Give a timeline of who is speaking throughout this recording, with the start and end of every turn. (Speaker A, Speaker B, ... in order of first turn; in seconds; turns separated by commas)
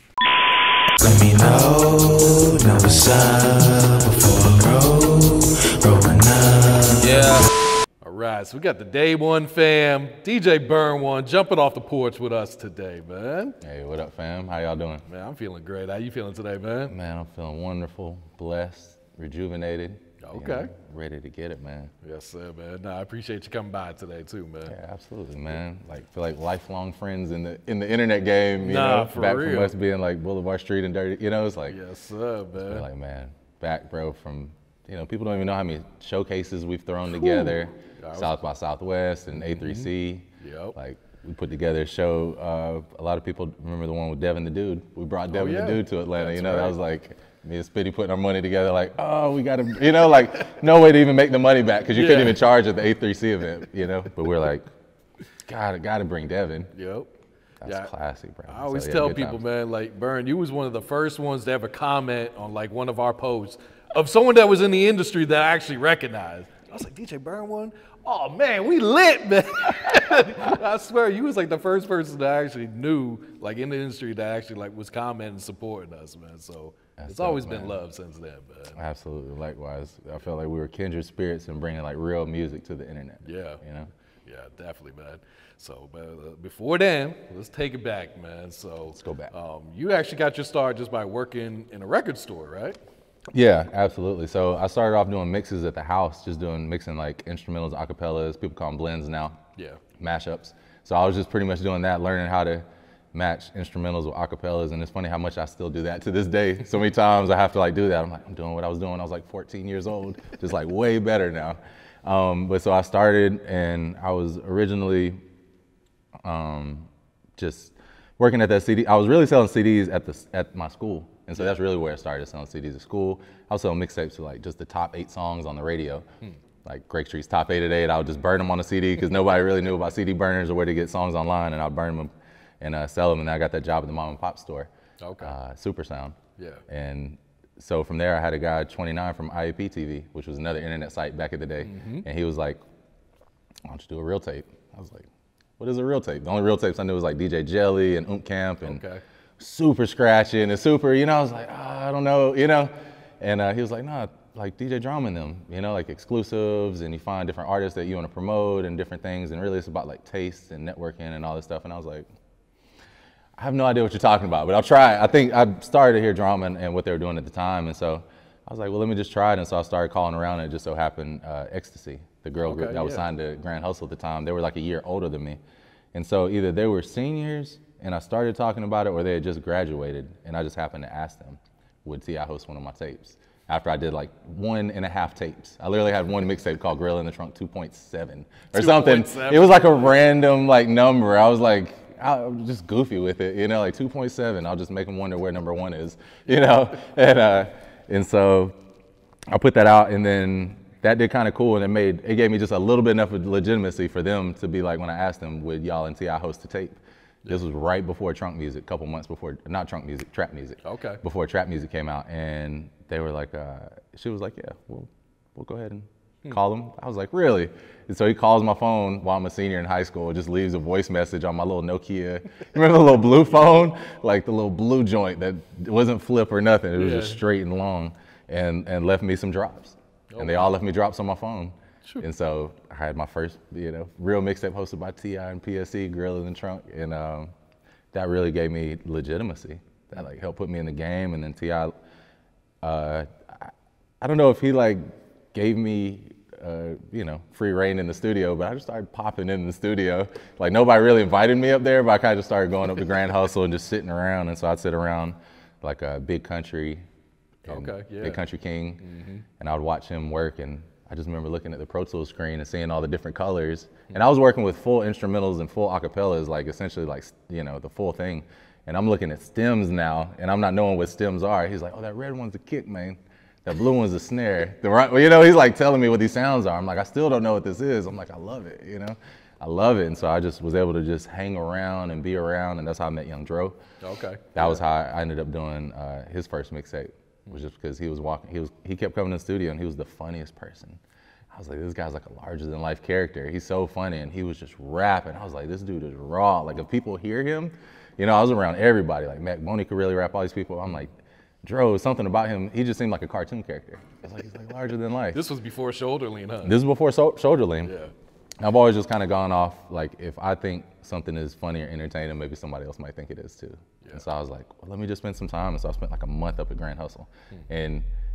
Speaker A: 1.0-7.5, Speaker B: 8.0-13.6, Speaker C: 13.6-15.0, Speaker B: 15.1-16.9, Speaker C: 16.9-21.9, Speaker B: 20.2-20.7, Speaker B: 22.0-24.7, Speaker C: 24.7-31.8, Speaker B: 28.6-29.8, Speaker B: 31.7-32.9, Speaker C: 32.5-54.7, Speaker B: 37.1-38.4, Speaker B: 39.4-40.7, Speaker B: 45.3-46.8, Speaker B: 51.9-52.4, Speaker C: 55.5-56.7, Speaker B: 56.7-57.1, Speaker C: 57.6-59.4, Speaker B: 57.6-57.9, Speaker B: 58.5-78.8, Speaker C: 77.0-77.8, Speaker C: 78.8-83.9, Speaker B: 83.2-83.6, Speaker B: 84.2-92.8, Speaker C: 88.9-89.3, Speaker C: 93.3-99.4, Speaker C: 100.0-115.2, Speaker C: 116.2-126.0, Speaker C: 126.6-134.7, Speaker B: 135.0-135.3, Speaker C: 135.2-142.6, Speaker B: 136.4-136.6, Speaker B: 141.6-142.1, Speaker C: 143.7-145.1, Speaker C: 145.6-148.8, Speaker B: 148.6-149.0, Speaker C: 149.4-162.1, Speaker C: 163.4-175.4, Speaker B: 172.4-173.0, Speaker C: 175.9-198.5, Speaker B: 188.5-190.0, Speaker C: 199.3-237.3, Speaker B: 210.6-211.0, Speaker B: 226.8-227.2, Speaker B: 230.1-230.6, Speaker C: 237.9-241.7, Speaker C: 242.6-256.8, Speaker C: 257.4-258.8, Speaker B: 257.5-258.2, Speaker B: 258.8-259.2, Speaker C: 259.4-283.6, Speaker B: 283.8-284.6, Speaker C: 284.3-290.8, Speaker C: 291.3-305.2, Speaker B: 305.1-306.5, Speaker C: 306.4-307.7, Speaker B: 307.6-307.9, Speaker C: 308.4-317.9